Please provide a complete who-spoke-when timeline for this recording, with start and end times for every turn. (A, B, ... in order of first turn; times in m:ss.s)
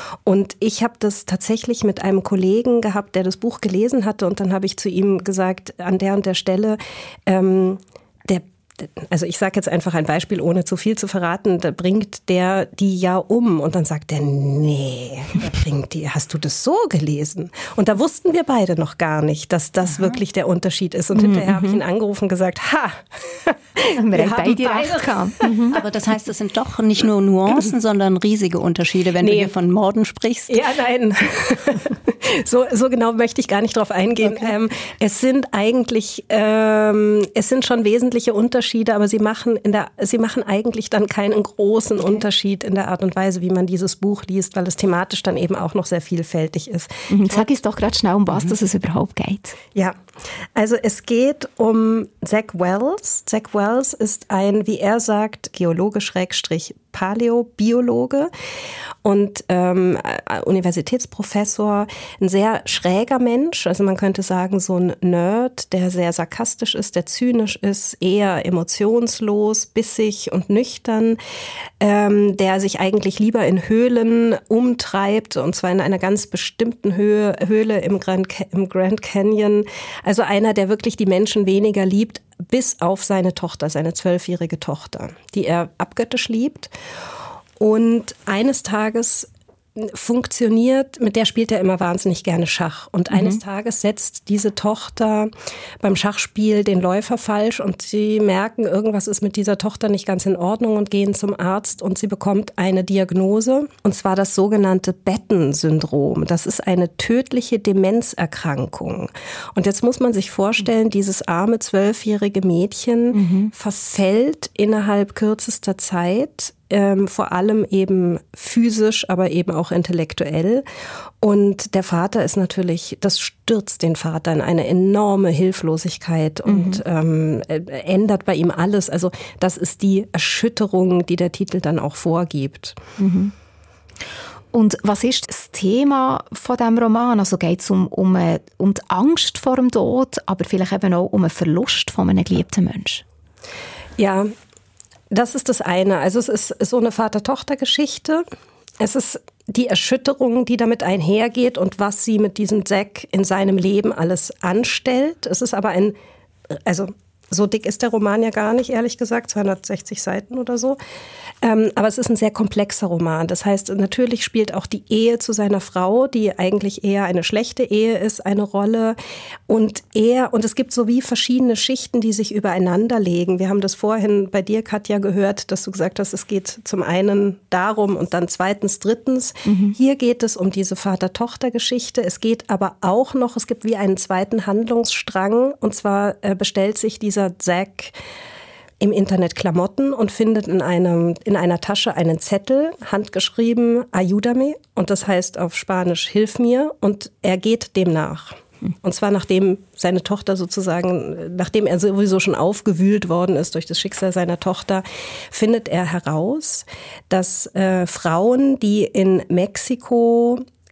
0:00.2-0:25.8 A
0:21.1-0:21.8 B
0:23.8-0:25.8 B
0:25.7-0:30.5 C
0:29.2-0:29.5 A
0:30.5-0:47.4 A
0:47.1-0:49.6 B
0:50.5-0:58.3 A
0:59.0-1:11.2 A
1:11.8-1:26.7 A
1:27.6-2:00.6 A
1:33.1-1:33.4 B
1:53.1-1:53.5 B
2:01.2-2:12.8 A
2:06.4-2:06.8 B
2:13.0-2:13.3 B
2:14.5-2:23.0 B
2:24.0-2:24.3 A
2:25.1-2:28.2 A
2:28.8-2:35.9 A
2:36.5-2:40.8 A
2:41.4-2:49.0 A
2:49.5-3:07.9 A
2:59.4-2:59.8 B
3:08.8-3:30.4 A